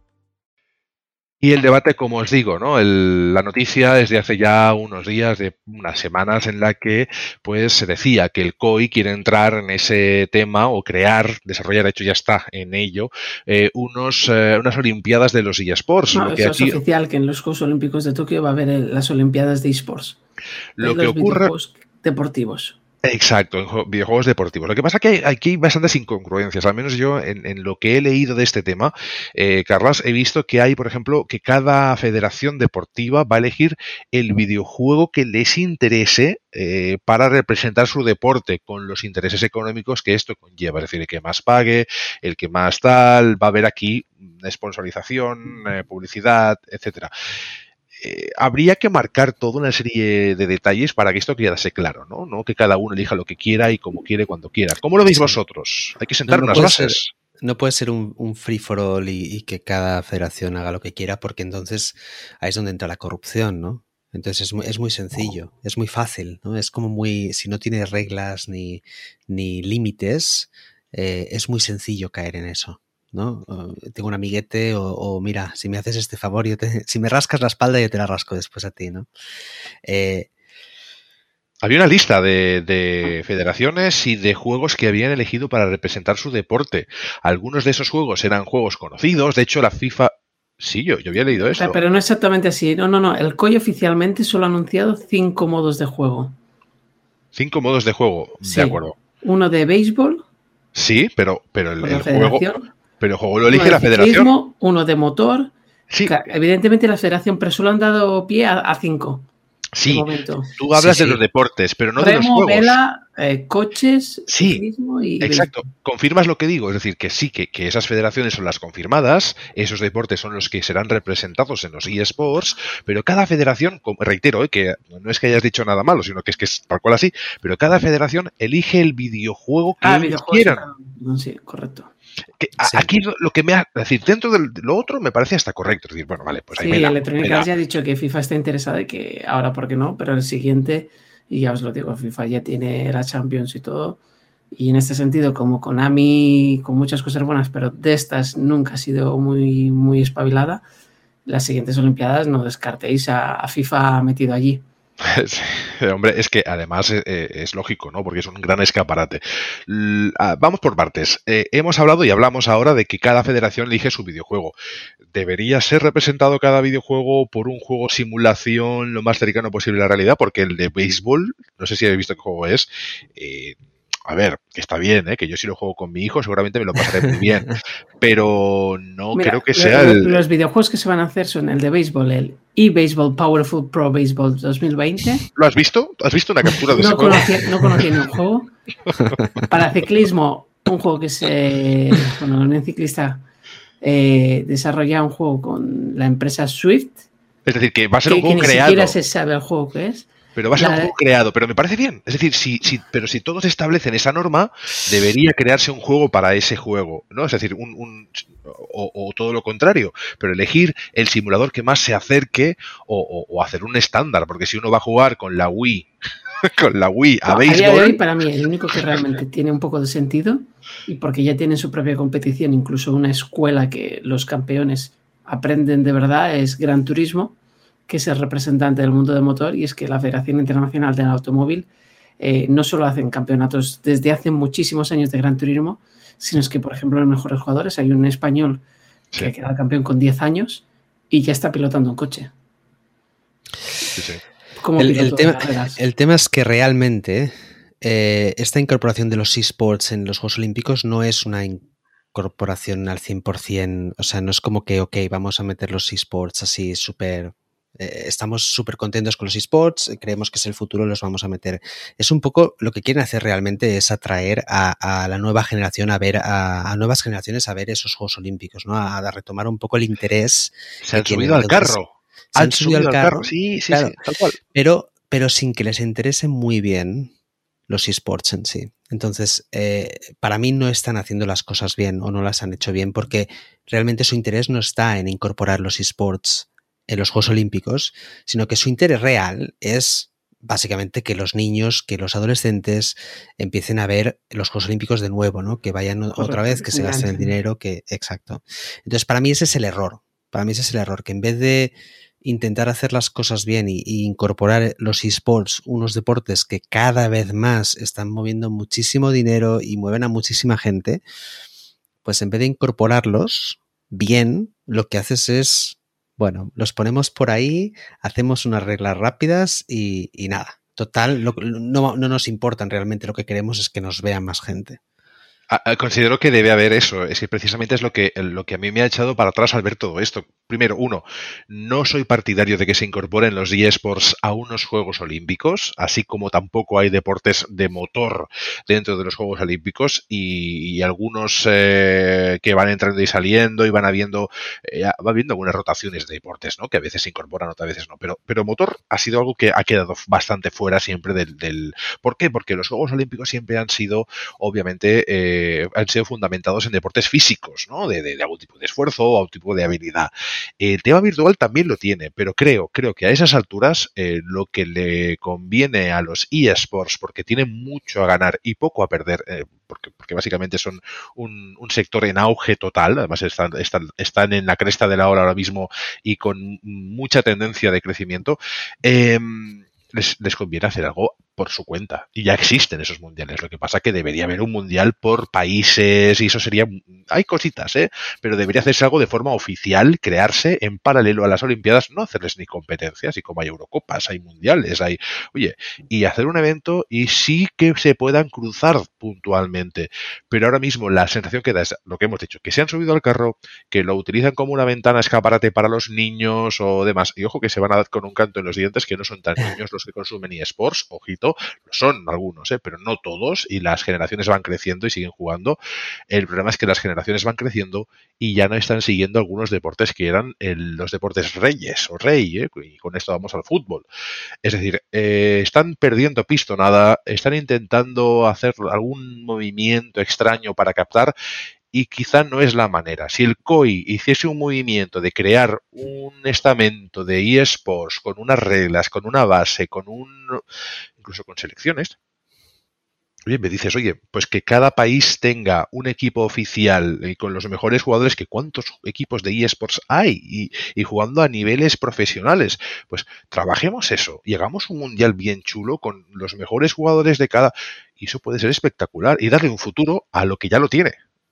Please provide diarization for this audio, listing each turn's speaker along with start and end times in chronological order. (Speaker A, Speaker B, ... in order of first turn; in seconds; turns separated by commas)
Speaker A: 1.4-16.8, Speaker B: 16.1-20.2, Speaker A: 20.8-21.5, Speaker B: 20.8-22.8, Speaker A: 23.0-47.1, Speaker A: 48.0-57.1, Speaker C: 55.1-55.4, Speaker C: 56.3-79.1, Speaker C: 79.8-80.3, Speaker A: 81.6-91.8, Speaker B: 91.3-96.3, Speaker A: 97.3-99.0, Speaker B: 98.4-100.2, Speaker A: 100.7-102.4, Speaker B: 101.8-102.7, Speaker A: 103.0-104.3, Speaker B: 103.5-105.5, Speaker A: 105.9-106.2, Speaker B: 106.0-109.2, Speaker A: 109.8-110.0, Speaker B: 109.9-110.5, Speaker A: 110.6-112.8, Speaker C: 110.7-111.2, Speaker B: 112.0-115.7, Speaker A: 114.3-114.6, Speaker A: 115.2-130.6, Speaker B: 129.8-131.9, Speaker A: 132.4-137.5, Speaker C: 132.6-132.9, Speaker B: 136.6-144.0, Speaker B: 144.5-150.6, Speaker B: 151.2-154.6, Speaker A: 155.0-164.5, Speaker A: 165.1-180.2, Speaker B: 179.1-185.2, Speaker A: 185.3-187.8, Speaker B: 186.7-188.5, Speaker B: 189.5-193.2, Speaker B: 193.8-197.1, Speaker A: 197.4-198.9, Speaker B: 198.1-200.9, Speaker A: 200.3-215.9, Speaker A: 216.6-218.0, Speaker B: 217.3-227.3, Speaker B: 227.9-231.7, Speaker B: 232.2-238.6, Speaker B: 239.2-242.3, Speaker A: 243.9-244.2, Speaker B: 244.6-245.8, Speaker C: 244.8-251.6, Speaker C: 252.1-271.8, Speaker A: 270.8-274.4, Speaker C: 272.3-273.9, Speaker C: 274.5-277.1, Speaker C: 277.7-311.0, Speaker B: 296.1-297.3, Speaker C: 312.0-324.8, Speaker A: 325.5-415.6, Speaker A: 416.1-423.9, Speaker A: 424.4-431.1, Speaker A: 431.7-440.4, Speaker A: 441.0-441.9, Speaker A: 443.3-460.9